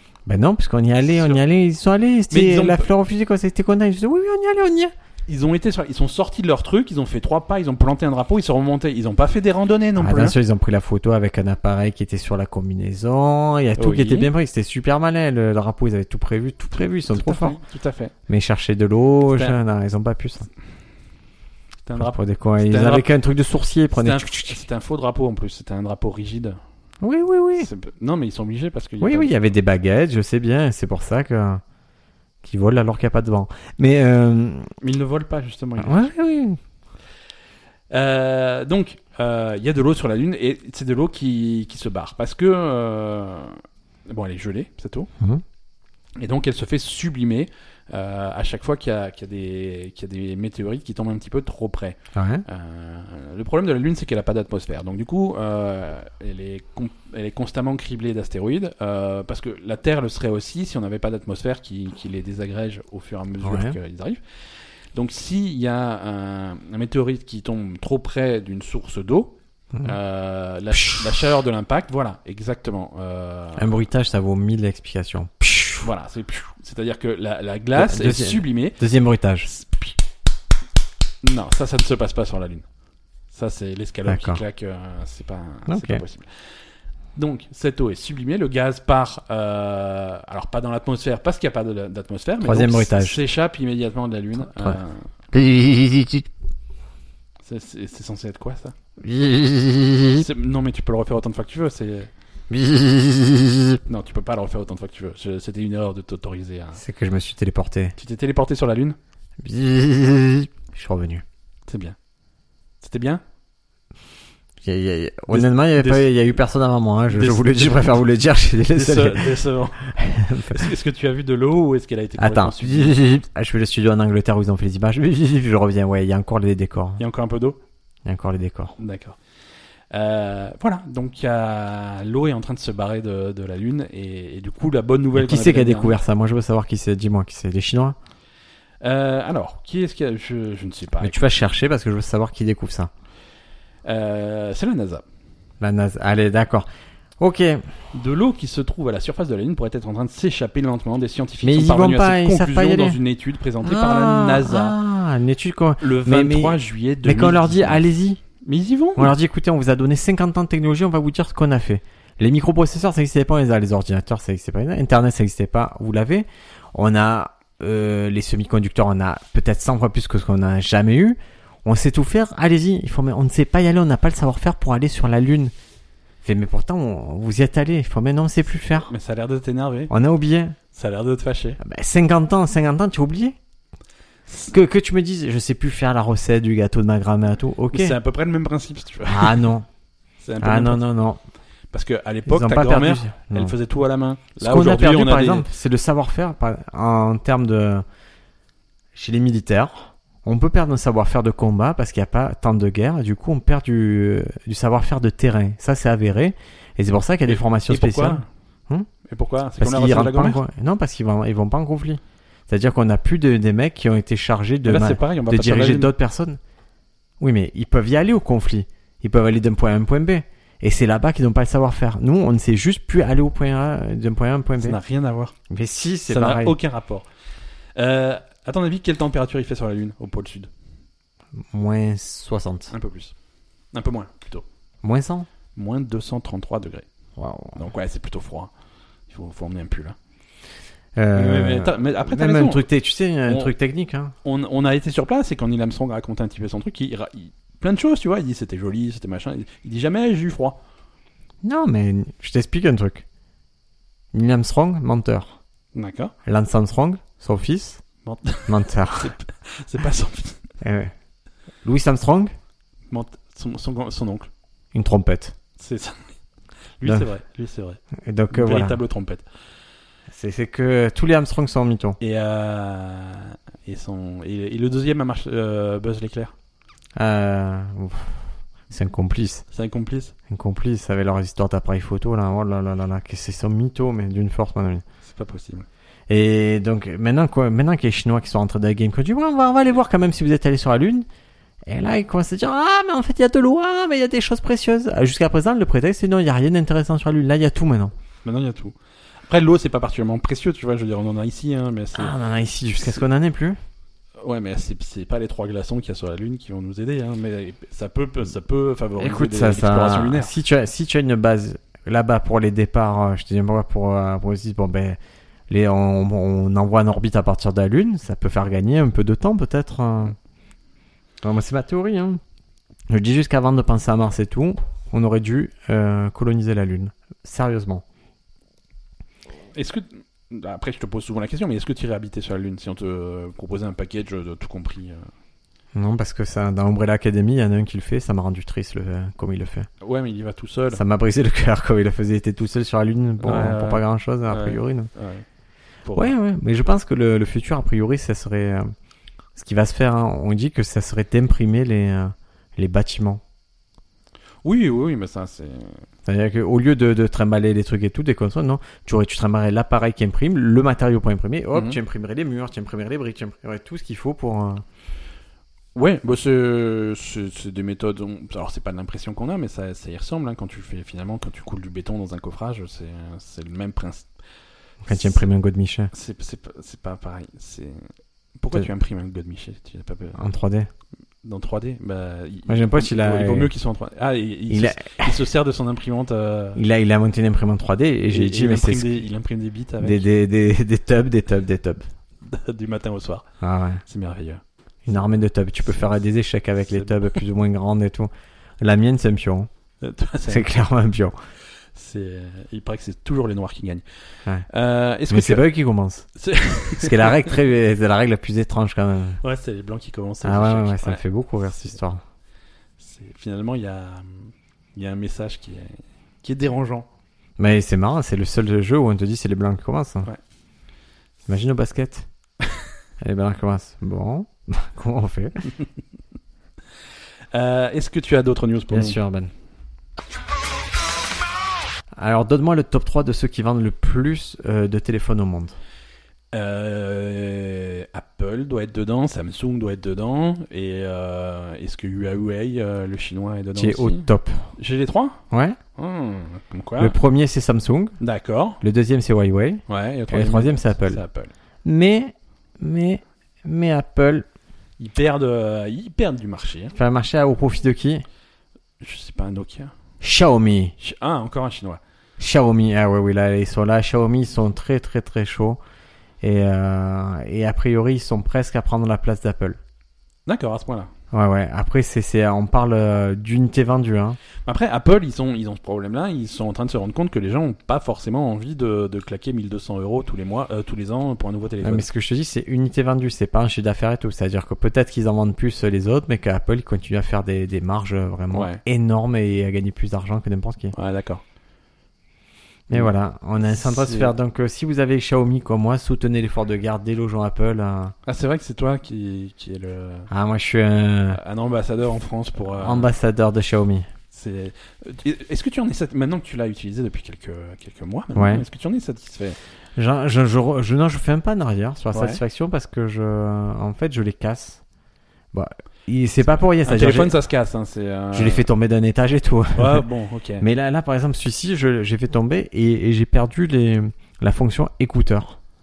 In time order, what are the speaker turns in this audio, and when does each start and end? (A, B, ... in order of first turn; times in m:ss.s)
0:00.3-0:04.9 A
0:01.1-0:01.4 B
0:02.3-0:02.9 B
0:05.3-0:10.4 B
0:10.0-0:17.6 A
0:13.8-0:14.3 B
0:17.1-0:18.2 B
0:18.3-0:20.5 A
0:19.3-0:19.6 B
0:21.8-0:23.1 B
0:22.0-0:24.6 A
0:23.9-0:26.6 B
0:27.0-0:27.7 A
0:27.6-0:29.4 B
0:29.0-0:31.6 A
0:32.4-0:34.7 A
0:34.8-0:36.1 B
0:35.8-0:36.6 A
0:37.9-0:45.1 B
0:46.2-1:04.2 B
0:52.2-0:52.4 A
1:03.4-1:03.8 A
1:04.9-1:13.8 B
1:10.8-1:11.1 A
1:13.6-1:15.9 A
1:15.8-1:18.8 B
1:17.8-1:19.5 A
1:21.2-1:22.7 B
1:23.3-1:26.3 B
1:24.1-1:24.4 A
1:25.7-1:26.0 A
1:27.2-1:35.1 B
1:32.4-1:33.2 A
1:35.3-1:36.3 A
1:37.4-1:38.7 B
1:39.0-1:40.3 A
1:40.1-1:42.1 B
1:42.5-1:43.8 A
1:43.9-1:46.8 B
1:46.8-1:47.9 A
1:48.0-1:49.0 B
1:49.4-1:51.2 A
1:51.7-1:52.0 B
1:52.8-1:53.2 B
1:54.6-2:00.7 A
1:55.3-1:56.2 B
1:57.1-1:58.0 B
1:58.7-1:59.8 B
2:00.4-2:03.0 B
2:02.2-2:07.0 A
2:07.0-2:07.6 B
2:08.0-2:08.8 A
2:08.8-2:09.2 B
2:09.9-2:16.0 B
2:15.1-2:18.0 A
2:18.8-2:21.2 B
2:21.0-2:22.9 A
2:23.8-2:25.0 B
2:25.6-2:26.7 A
2:27.2-2:27.6 A
2:27.9-2:34.8 B
2:31.4-2:33.0 A
2:33.6-2:38.2 A
2:35.8-2:37.8 B
2:38.4-2:39.1 B
2:39.0-2:55.5 A
2:56.2-2:58.9 A
2:58.8-2:59.9 B
2:59.9-3:00.6 A
3:00.7-3:01.6 B
3:01.6-3:03.4 A
3:04.5-3:08.0 A
3:07.7-3:09.5 B
3:09.1-3:09.7 A
3:10.2-3:10.8 B
3:10.4-3:11.2 A
3:11.7-3:15.5 B
3:12.3-3:13.6 A
3:14.4-3:17.8 A
3:18.9-3:28.9 A
3:27.3-3:28.3 B
3:29.1-3:30.4 B
3:29.6-3:36.4 A
3:34.7-3:35.9 B
3:37.2-3:44.8 A
3:44.6-3:45.4 B
3:45.5-3:46.6 A
3:46.1-3:47.1 B
3:47.8-3:50.5 B
3:51.4-3:52.7 A
3:52.7-3:53.1 B
3:53.7-3:54.4 B
3:54.8-3:55.3 A
3:55.6-3:56.9 B
3:57.2-3:57.6 A
3:57.6-3:58.5 B
3:59.1-4:00.0 B
4:01.0-4:04.1 A
4:01.1-4:02.6 B
4:03.3-4:03.5 B
4:04.2-4:10.6 B
4:11.4-4:13.0 A
4:14.1-4:15.4 A
4:15.8-4:16.1 B
4:16.3-4:17.8 A
4:18.0-4:20.4 B
4:18.5-4:19.1 A
4:20.6-4:20.9 A
4:21.6-4:22.3 A
4:22.9-4:24.3 B
4:24.7-4:25.4 A
4:25.6-4:26.1 B
4:26.8-4:27.8 B
4:28.0-4:28.8 A
4:28.3-4:29.2 B
4:30.1-4:32.0 A
4:32.0-4:36.3 B
4:37.0-4:39.4 A
4:39.5-4:40.2 B
4:40.3-4:44.8 A
4:45.0-4:45.7 B
4:46.1-4:51.1 A
4:51.7-4:57.9 A
4:58.2-4:58.8 B
4:59.3-5:02.2 B
5:02.0-5:03.6 A
5:04.2-5:10.3 B
5:09.0-5:15.0 A
5:15.5-5:20.2 A
5:21.2-5:22.2 A
5:22.9-5:27.8 A
5:29.6-5:35.1 B
5:35.8-5:39.7 A
5:39.8-5:40.8 B
5:40.7-5:44.9 A
5:43.2-5:45.2 B
5:45.8-5:46.2 B
5:46.0-5:48.7 A
5:49.4-5:53.2 A
5:54.4-5:55.8 B
5:56.1-6:04.6 A
6:05.8-6:14.1 B
6:14.8-6:15.9 A
6:14.9-6:15.2 B
6:15.9-6:17.9 B
6:18.4-6:20.2 B
6:20.2-6:20.7 A
6:21.2-6:26.6 B
6:22.5-6:23.5 A
6:24.5-6:25.2 A
6:26.6-6:29.0 A
6:28.1-6:30.1 B
6:29.8-6:31.8 A
6:32.2-6:33.2 B
6:33.4-6:33.8 A
6:33.8-6:34.4 B
6:34.9-6:39.5 A
6:36.7-6:37.2 B
6:39.8-6:40.5 B
6:40.3-6:41.2 A
6:41.8-6:43.8 B
6:44.5-6:45.5 B
6:45.1-6:46.1 A
6:46.2-6:47.4 B
6:46.7-6:49.2 A
6:49.2-6:51.0 B
6:50.2-6:52.0 A
6:52.8-6:56.9 B
6:57.4-7:00.1 A
7:01.3-7:02.1 A
7:03.0-7:05.5 A
7:07.3-7:09.0 B
7:08.7-7:09.3 A
7:12.0-7:15.6 A
7:16.3-7:25.2 B
7:23.6-7:24.4 A
7:25.3-7:25.6 A
7:25.8-7:27.0 B
7:26.8-7:28.0 A
7:28.0-7:28.6 B
7:28.6-7:31.0 A
7:29.7-7:31.3 B
7:31.6-7:34.3 A
7:34.8-7:36.7 B
7:36.8-7:38.0 A
7:38.8-7:39.7 B
7:40.0-7:40.8 A
7:40.8-7:41.8 B
7:42.2-7:45.6 A
7:46.2-7:49.6 A
7:50.3-7:50.9 B
7:51.1-7:54.2 A
7:54.5-8:01.9 B
8:01.6-8:10.7 A
8:08.3-8:08.6 B
8:10.7-8:11.2 B
8:12.7-8:18.0 A
8:13.5-8:14.1 B
8:18.1-8:20.1 B
8:20.1-8:21.2 A
8:21.1-8:22.9 B
8:22.5-8:23.9 A
8:24.1-8:29.4 B
8:28.2-8:28.4 A
8:29.8-8:34.6 A
8:31.9-8:32.2 B
8:35.3-8:37.2 A
8:36.2-8:38.5 B
8:38.1-8:39.9 A
8:39.6-8:40.4 B
8:40.4-8:45.4 A